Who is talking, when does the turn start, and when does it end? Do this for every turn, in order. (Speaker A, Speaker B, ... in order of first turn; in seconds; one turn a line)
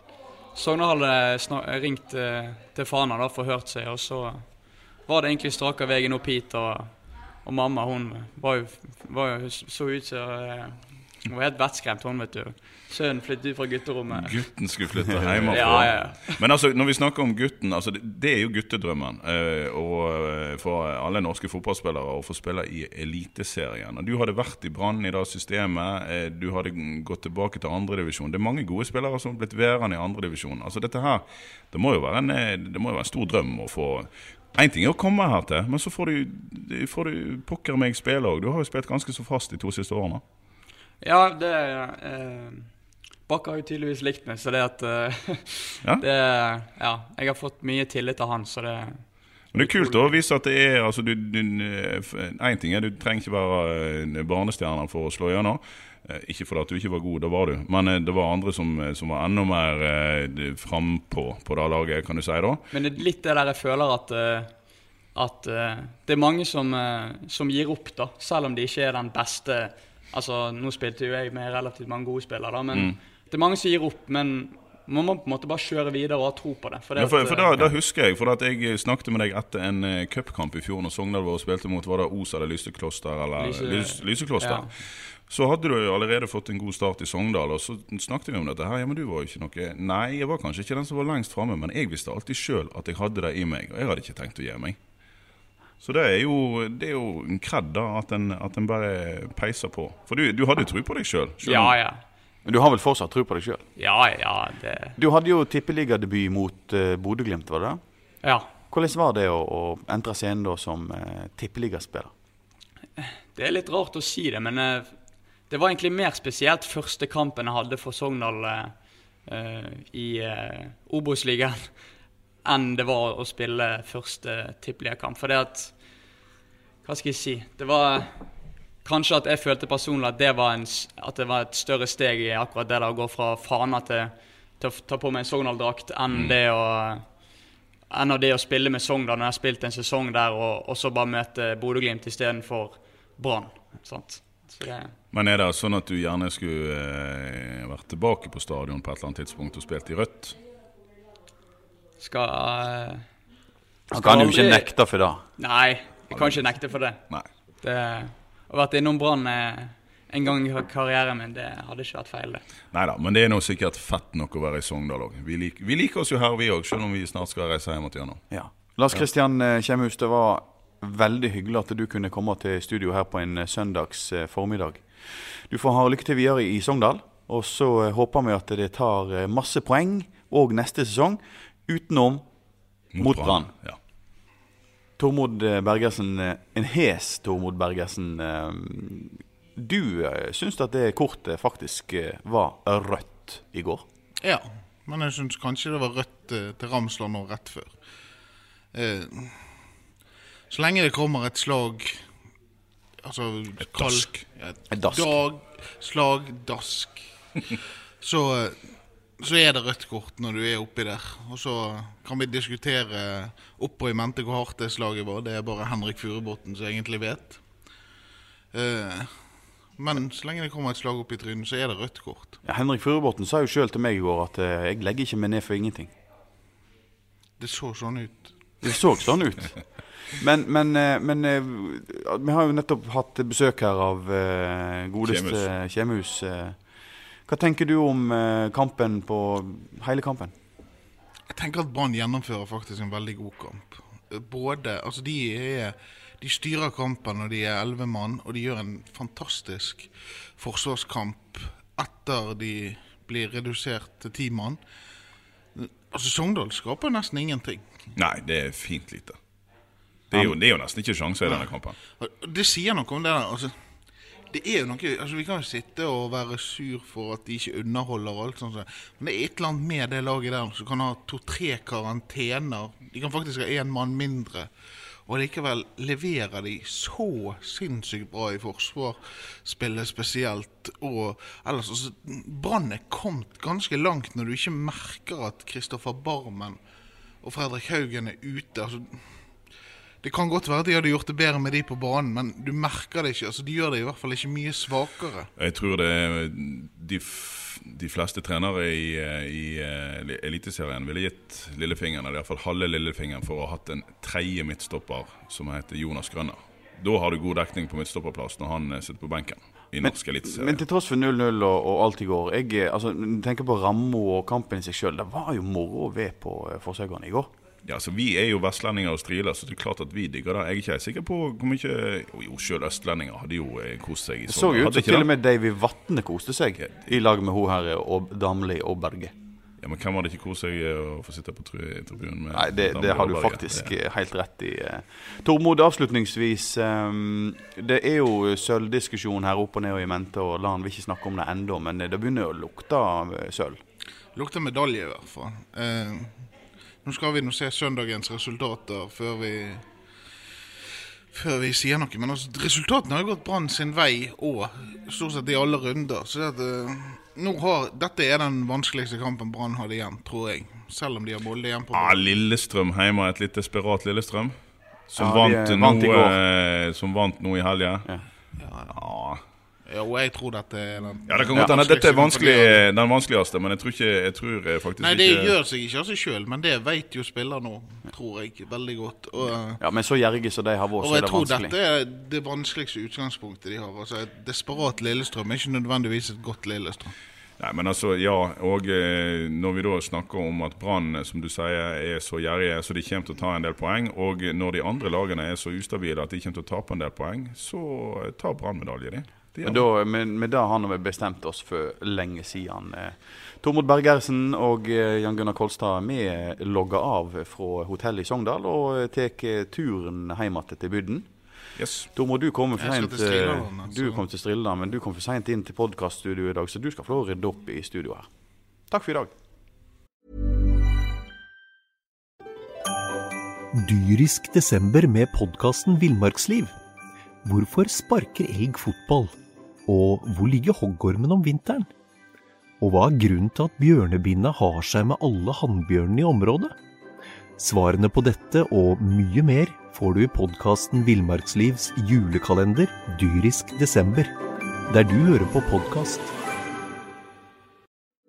Speaker A: 0.5-14.7
Speaker B: 14.1-40.2
Speaker A: 15.5-16.4
Speaker A: 41.0-42.7
Speaker A: 43.3-50.2
Speaker B: 49.5-62.7
Speaker A: 62.7-64.5
Speaker A: 65.1-77.6
Speaker B: 77.0-94.8
Speaker A: 83.4-84.7
Speaker B: 95.8-101.8
Speaker A: 101.4-102.0
Speaker C: 102.4-103.6
Speaker A: 103.8-105.0
Speaker C: 105.0-107.8
Speaker A: 108.2-108.5
Speaker C: 108.7-112.1
Speaker A: 113.0-114.9
Speaker A: 115.5-121.8
Speaker A: 122.4-125.8
Speaker A: 126.8-128.1
Speaker A: 128.8-137.1
Speaker A: 137.9-144.9
Speaker B: 145.1-150.4
Speaker A: 152.0-153.1
Speaker C: 153.9-155.2
Speaker A: 153.9-154.7
Speaker A: 155.4-157.0
Speaker B: 156.1-156.5
Speaker A: 157.6-162.4
Speaker B: 162.7-168.2
Speaker C: 168.3-174.9
Speaker C: 175.5-182.3
Speaker B: 182.9-183.8
Speaker C: 183.0-183.5
Speaker C: 185.0-193.8
Speaker D: 194.2-197.8
Speaker D: 198.7-199.4
Speaker D: 200.5-202.1
Speaker D: 203.0-207.1
Speaker B: 203.7-204.2
Speaker C: 204.7-205.2
Speaker D: 208.0-217.4
Speaker D: 218.5-222.4
Speaker C: 222.4-225.9
Speaker D: 227.4-228.6
Speaker C: 228.6-236.6
Speaker B: 235.1-235.4
Speaker C: 237.3-240.3
Speaker D: 241.3-254.6
Speaker D: 255.6-257.7
Speaker B: 257.9-259.2
Speaker B: 260.1-261.8
Speaker D: 262.0-263.6
Speaker D: 264.3-274.5
Speaker D: 275.1-286.6
Speaker D: 287.2-289.2
Speaker D: 290.0-295.3
Speaker B: 295.4-310.6
Speaker C: 309.8-317.3
Speaker B: 317.6-325.1
Speaker C: 324.3-329.1
Speaker B: 329.6-333.7
Speaker C: 332.3-343.6
Speaker D: 344.1-346.2
Speaker D: 346.8-349.6
Speaker D: 351.1-362.1
Speaker B: 361.7-364.4
Speaker B: 364.9-367.9
Speaker C: 365.0-366.2
Speaker D: 368.4-368.8
Speaker B: 368.7-369.2
Speaker D: 369.7-372.6
Speaker B: 371.1-375.4
Speaker D: 374.8-379.6
Speaker C: 379.6-381.6
Speaker D: 380.8-386.9
Speaker B: 387.4-399.7
Speaker C: 399.4-411.1
Speaker B: 411.6-411.9
Speaker C: 411.9-418.1
Speaker D: 412.6-414.0
Speaker C: 418.7-419.1
Speaker E: 423.5-426.6
Speaker E: 427.2-429.1
Speaker E: 429.7-431.7
Speaker E: 432.6-436.6
Speaker E: 437.4-444.1
Speaker E: 444.7-446.1